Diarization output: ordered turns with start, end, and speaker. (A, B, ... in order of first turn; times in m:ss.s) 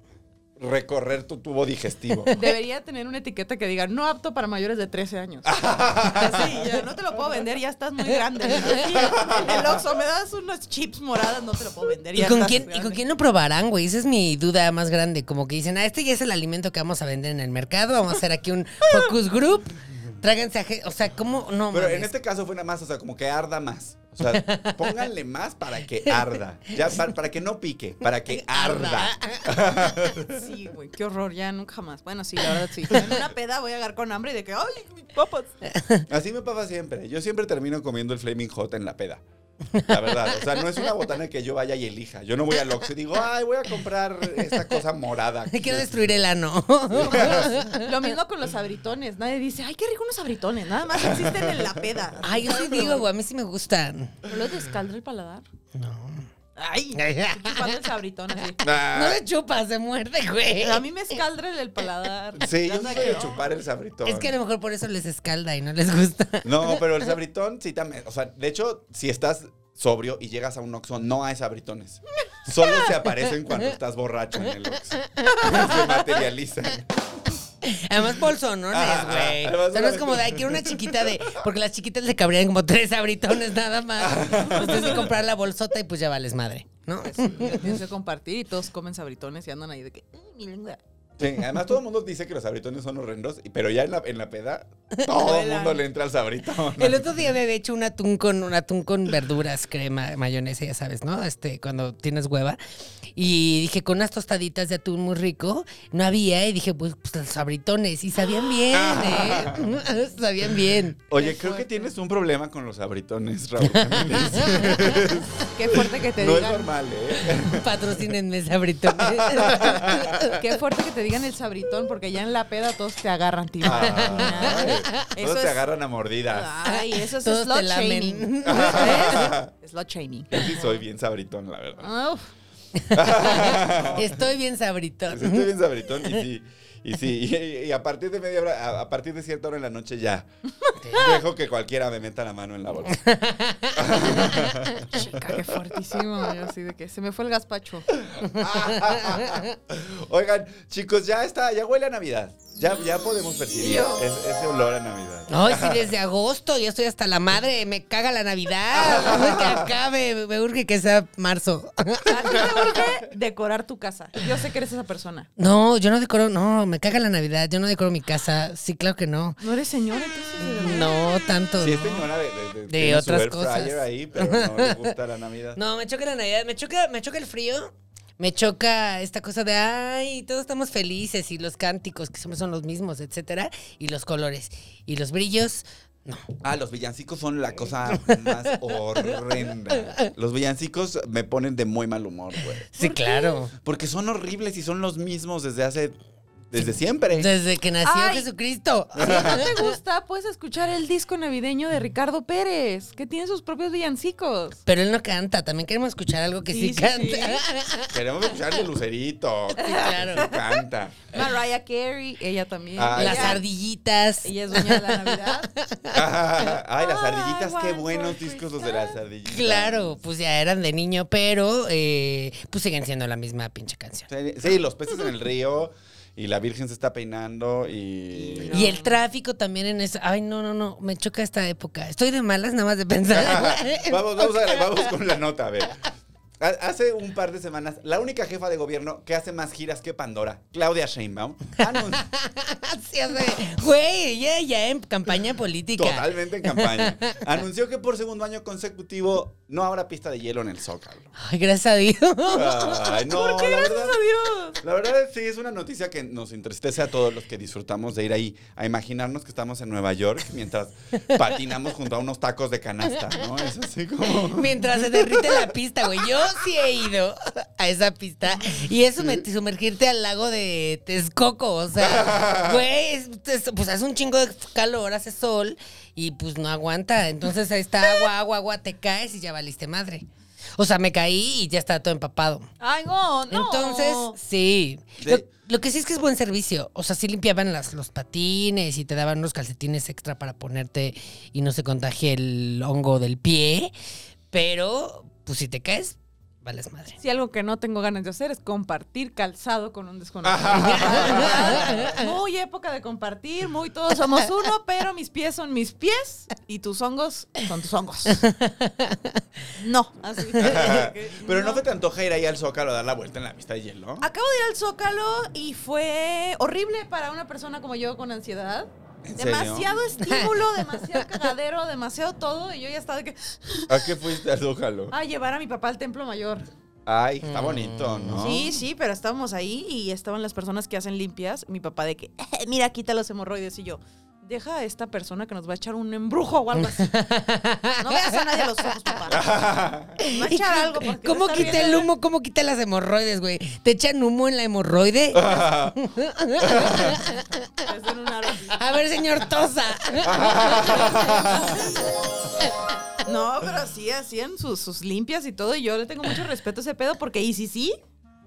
0:00.6-0:02.3 A
0:02.3-0:05.6 B
0:05.4-0:06.8 A
0:06.1-0:13.0 B
0:08.9-0:09.8 A
0:12.2-0:22.1 C
0:21.7-0:30.4 A
0:24.2-0:25.1 C
0:28.3-0:29.6 C
0:30.3-0:35.5 B
0:35.7-0:36.0 C
0:36.1-0:39.2 A
0:39.8-0:46.2 A
0:45.5-0:48.1 C
0:46.9-0:47.5 A
0:47.0-0:53.1 B
0:50.9-0:51.8 A
0:52.2-0:54.2 C
0:54.3-0:55.4 B
0:55.8-0:56.3 C
0:56.6-0:58.6 B
0:57.0-0:57.8 C
0:58.6-0:59.2 A
0:58.8-1:00.8 C
1:00.6-1:03.4 B
1:02.4-1:04.4 A
1:04.0-1:06.8 C
1:06.4-1:16.9 A
1:15.2-1:15.5 C
1:15.3-1:16.1 B
1:17.6-1:27.7 C
1:18.7-1:21.4 A
1:24.0-1:25.1 A
1:24.6-1:25.0 B
1:27.0-1:30.8 B
1:31.2-1:37.1 A
1:35.1-1:35.8 B
1:36.8-1:42.6 C
1:43.2-1:51.0 C
1:48.7-1:49.8 A
1:51.1-1:58.1 A
1:51.1-1:51.9 B
1:53.7-1:54.8 C
1:55.5-1:56.7 B
1:57.4-2:00.4 C
1:58.9-2:00.3 A
2:00.3-2:05.7 B
2:03.6-2:06.6 A
2:03.7-2:05.1 C
2:06.3-2:10.7 B
2:06.7-2:09.4 C
2:08.4-2:09.5 A
2:10.3-2:11.9 A
2:11.8-2:12.3 B
2:12.8-2:16.2 C
2:12.9-2:14.2 A
2:15.1-2:20.3 A
2:20.6-2:21.2 B
2:20.9-2:23.0 A
2:22.9-2:24.8 C
2:23.7-2:26.0 A
2:24.9-2:27.9 B
2:28.0-2:35.9 A
2:28.3-2:29.4 C
2:33.6-2:34.1 B
2:35.3-2:42.4 C
2:38.7-2:39.7 A
2:42.1-2:45.3 B
2:45.4-2:49.4 C
2:49.4-2:51.2 B
2:50.4-2:52.0 C
2:51.6-2:55.6 A
2:52.7-2:54.9 C
2:55.6-3:06.2 C
3:06.4-3:12.7 A
3:08.0-3:08.5 C
3:12.7-3:13.5 C
3:12.8-3:13.4 B
3:13.6-3:16.0 A
3:16.5-3:17.3 A
3:17.1-3:19.8 C
3:17.8-3:18.3 B
3:19.0-3:19.5 A
3:19.0-3:24.6 B
3:24.7-3:28.0 C
3:26.5-3:27.4 B
3:27.9-3:31.2 A
3:29.6-3:30.3 C
3:29.6-3:30.6 B
3:31.1-3:33.4 B
3:32.8-3:33.4 A
3:33.0-3:36.0 C
3:34.2-3:35.5 B
3:35.9-3:40.0 A
3:36.8-3:39.0 B
3:39.3-3:44.1 C
3:44.1-3:48.6 A
3:48.2-3:49.0 B
3:48.4-3:54.8 C
3:53.1-3:55.8 A
3:56.4-4:02.1 A
4:01.8-4:07.2 C
4:05.8-4:11.1 A
4:11.2-4:12.8 C
4:12.3-4:14.0 A
4:12.9-4:14.6 B
4:14.6-4:26.3 A
4:24.1-4:40.1 C
4:29.0-4:29.2 A
4:31.8-4:32.6 A
4:40.6-4:42.5 C
4:42.6-4:44.2 B
4:43.3-4:53.7 C
4:45.0-4:45.2 A
4:54.3-4:57.0 C
4:57.0-5:08.2 B
5:00.2-5:02.0 A
5:00.5-5:02.0 C
5:08.2-5:09.2 C
5:09.6-5:11.6 B
5:10.4-5:14.1 A
5:14.0-5:23.9 B
5:19.1-5:19.7 A
5:23.7-5:24.9 A
5:24.9-5:26.5 B
5:26.9-5:28.6 A
5:27.2-5:28.2 C
5:28.2-5:37.0 B
5:36.8-5:38.9 C
5:37.8-5:39.3 B
5:39.1-5:40.0 A
5:40.0-5:47.6 C
5:40.0-5:41.9 B
5:41.4-5:41.8 A
5:45.1-5:45.8 A
5:46.4-5:47.0 A
5:47.6-5:48.8 B
5:48.5-5:51.4 C
5:50.0-5:51.6 A
5:50.2-5:52.0 B
5:53.0-5:57.8 B